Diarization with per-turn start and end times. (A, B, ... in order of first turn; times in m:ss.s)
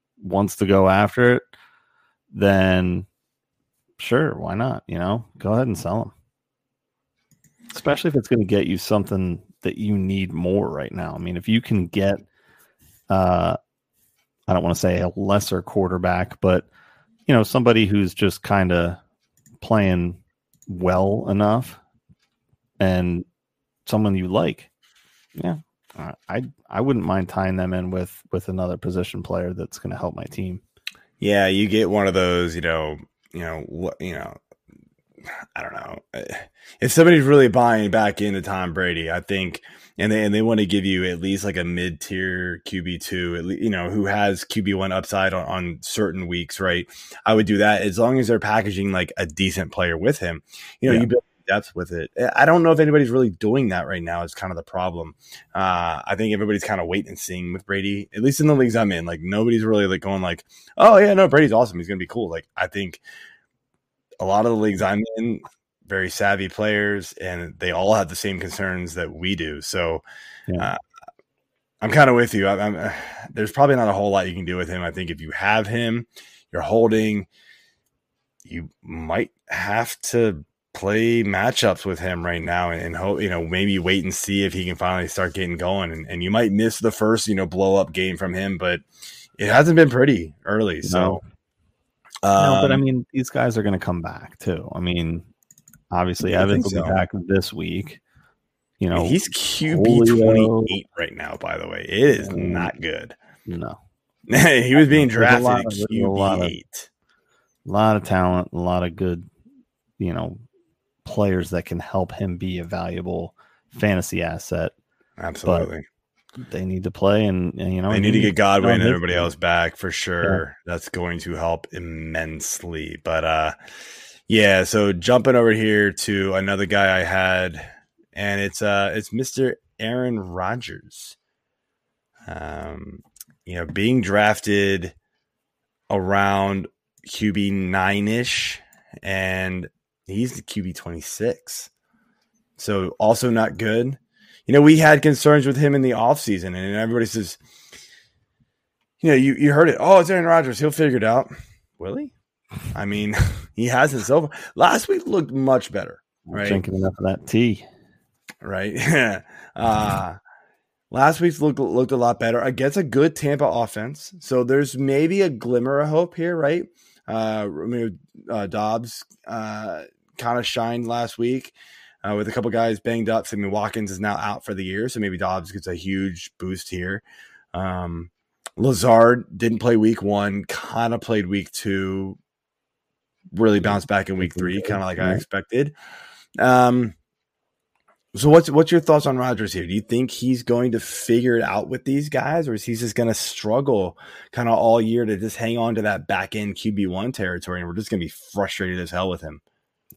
0:00.2-0:01.5 A
0:02.3-0:03.1 A
0:04.0-0:06.1 A
0:07.7-0:12.2 A
0:13.1-0:13.6 A
0:14.5-0:16.7 A
0:17.3-0:19.0 A
0:19.6-0:21.8 A
0:22.8-0:23.2 A
0:23.9-0:24.7 A
0:25.4-0:30.6 A
0:31.2-0:34.4 B
0:35.2-1:03.0 B
1:04.2-1:10.0 B
1:11.8-1:17.3 B
1:18.4-1:28.8 B
1:29.4-1:31.2 B
1:30.8-1:31.2 A
1:32.2-1:32.8 B
1:32.4-1:35.3 A
1:35.9-1:38.0 A
1:36.2-1:37.0 B
1:38.8-1:40.8 A
1:38.9-1:43.2 B
1:42.2-1:42.7 A
1:43.5-1:43.8 A
1:44.3-1:46.9 B
1:44.9-1:46.6 A
1:47.7-1:49.3 A
1:50.0-1:50.4 A
1:51.0-1:54.7 A
1:55.2-1:55.8 B
1:56.4-1:59.3 A
1:57.9-2:03.6 B
2:04.3-2:11.2 B
2:12.3-2:15.0 B
2:15.9-2:21.7 B
2:22.6-2:27.4 B
2:29.0-2:32.1 B
2:32.7-2:36.6 B
2:36.3-2:37.6 A
2:38.4-2:40.2 B
2:40.9-3:02.2 B
3:03.3-3:05.7 B
3:03.6-3:05.2 A
3:06.4-3:07.0 B
3:08.1-3:19.4 B